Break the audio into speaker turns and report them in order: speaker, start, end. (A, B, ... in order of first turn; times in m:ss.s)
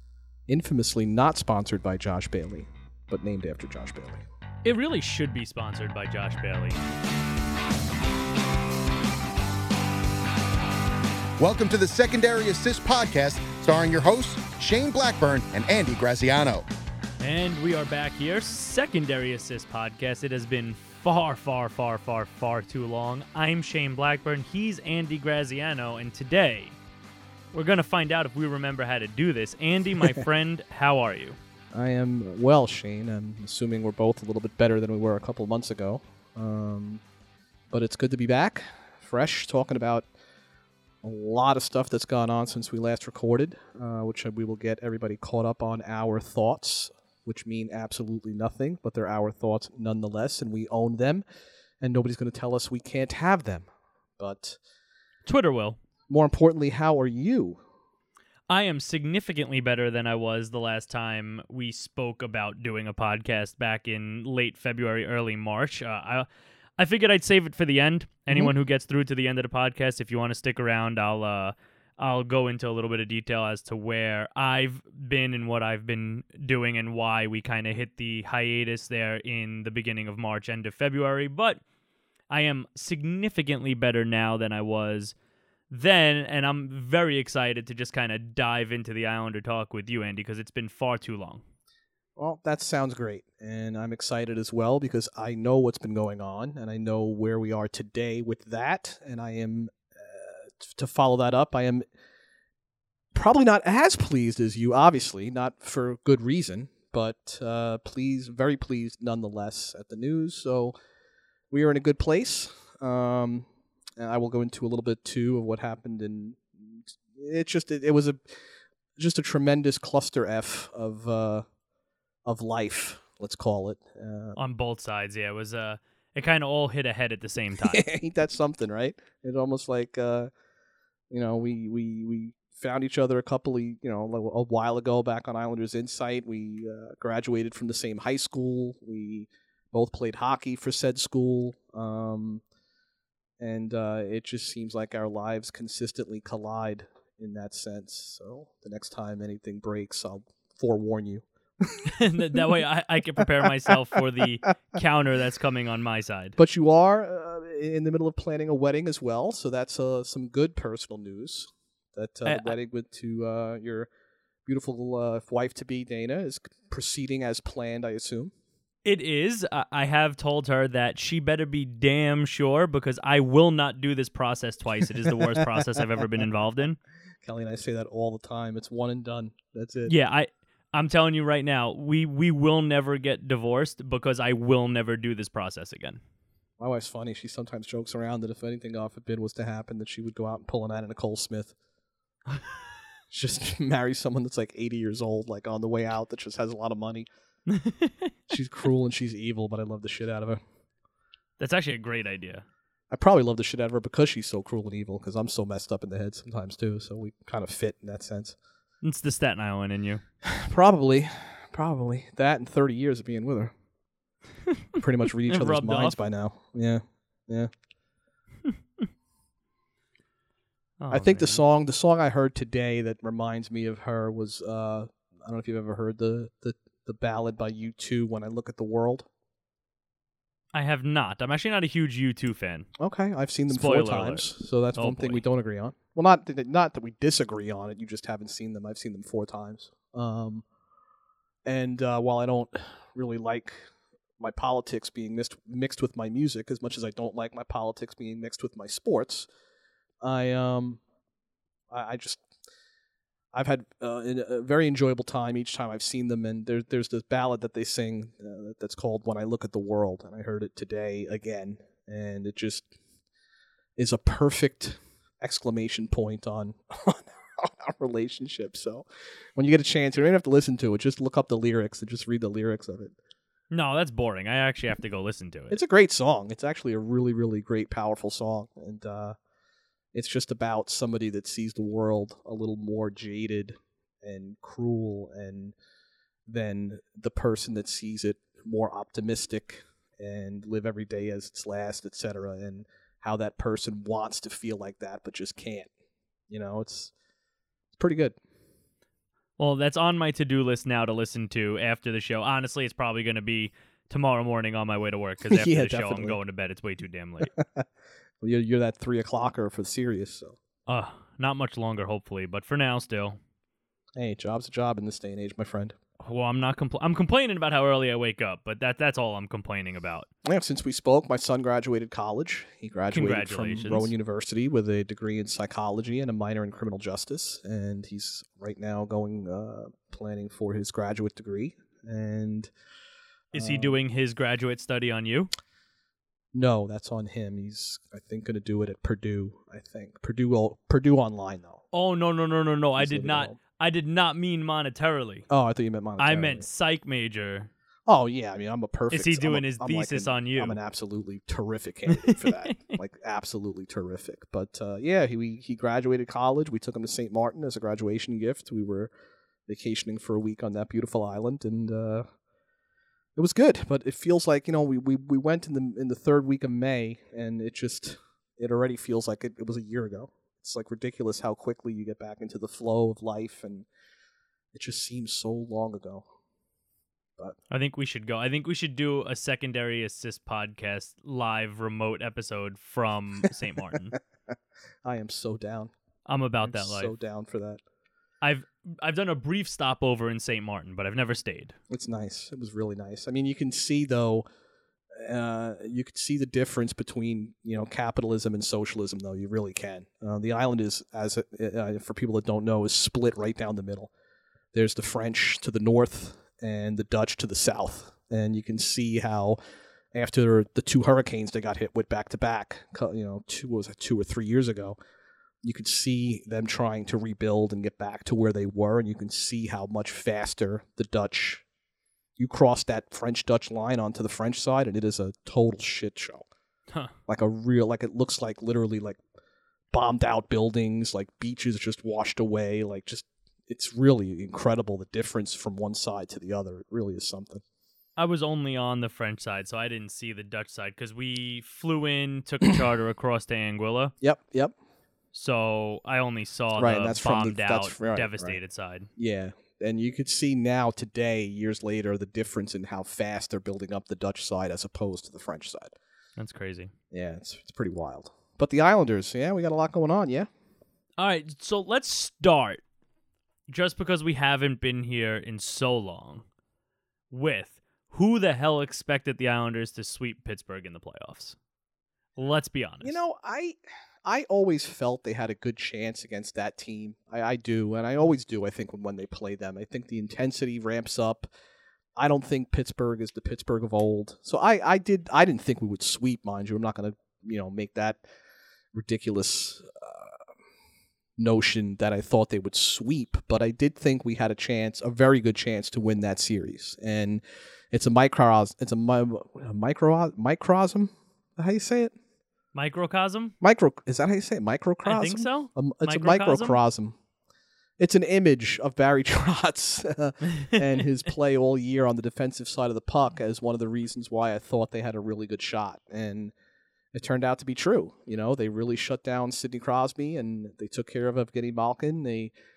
0:00.5-0:04.2 A
0:04.6-0:06.8 B
0:11.4-0:16.6 C
0:17.2-0:26.8 B
0:27.5-0:31.4 B
0:31.7-0:37.0 A
0:37.7-0:40.1 A
0:41.0-0:51.2 A
0:51.8-0:53.7 A
0:54.2-0:54.6 A
0:55.2-0:55.8 B
0:56.1-0:57.6 A
0:58.5-1:06.3 B
1:06.8-1:21.6 B
1:22.3-1:25.1 B
1:25.7-1:31.4 B
1:32.2-1:41.8 A
1:43.1-1:50.7 A
1:51.5-1:53.4 A
1:54.0-1:58.4 A
1:59.0-2:01.4 A
2:02.2-2:04.4 A
2:04.4-2:07.8 B
2:07.7-2:10.3 A
2:11.1-2:22.4 A
2:23.4-2:31.9 A
2:31.8-2:36.4 B
2:36.4-2:43.9 A
2:42.2-2:42.6 B
2:44.4-2:48.3 A
2:48.8-2:56.8 B
2:57.2-2:59.9 A
2:59.8-3:06.0 B
3:06.6-3:11.5 A
3:13.1-3:17.1 A
3:17.5-3:18.1 B
3:18.3-3:20.4 A
3:21.4-3:22.4 B
3:22.9-3:28.3 A
3:28.8-3:30.0 B
3:30.2-3:33.5 A
3:34.8-3:37.5 A
3:35.3-3:36.0 B
3:38.4-3:38.8 B
3:40.8-3:41.4 B
3:40.9-3:49.1 A
3:50.5-3:52.7 B
3:52.8-4:00.4 A
3:53.5-3:54.2 B
3:54.8-3:55.2 B
4:01.4-4:03.6 A
4:04.2-4:09.3 A
4:10.0-4:10.8 A
4:11.7-4:12.2 A
4:13.3-4:22.7 A
4:23.8-4:28.8 A
4:29.4-4:32.9 A
4:33.5-4:35.6 B
4:35.5-4:39.2 A
4:39.9-4:45.5 A
4:46.3-4:55.7 A
4:56.3-4:56.9 A
4:57.8-4:58.2 A
4:59.4-5:07.3 B
5:05.3-5:06.2 A
5:07.3-5:07.6 A
5:08.2-5:10.4 A
5:10.7-5:13.2 B
5:14.0-5:15.8 A
5:16.0-5:20.1 B
5:20.2-5:32.5 A
5:22.9-5:23.9 B
5:33.3-5:35.3 B
5:33.3-5:33.8 A
5:36.3-5:41.6 A
5:41.7-5:45.2 B
5:42.8-5:43.4 A
5:45.3-5:46.4 A
5:46.0-5:47.5 B
5:47.9-5:58.9 A
5:48.9-5:50.6 B
5:51.9-5:52.8 B
5:59.5-6:02.0 A
6:03.2-6:13.7 A
6:14.5-6:16.0 A
6:17.5-6:24.0 B
6:24.8-6:25.7 A
6:26.0-6:26.9 B
6:26.4-6:27.6 A
6:28.2-6:31.6 B
6:31.7-6:34.2 A
6:34.9-6:43.9 A
6:44.5-6:49.4 A
6:49.9-6:54.8 A
6:55.4-7:01.4 A
7:02.2-7:06.2 A
7:07.1-7:09.0 A
7:09.7-7:17.4 A
7:18.0-7:23.9 B
7:24.0-7:24.5 A
7:25.1-7:28.9 B
7:26.6-7:28.4 A
7:29.0-7:35.7 A
7:36.2-7:36.7 B
7:36.9-7:40.3 A
7:41.0-7:42.6 B
7:43.5-7:46.2 B
7:47.1-7:51.4 B
7:52.2-7:53.0 B
7:52.8-8:01.3 A
8:02.0-8:08.0 A
8:08.7-8:10.1 A
8:11.2-8:21.9 A
8:22.5-8:23.3 B
8:23.4-8:27.0 A
8:24.8-8:26.6 B
8:27.8-8:36.3 A
8:36.9-8:42.3 A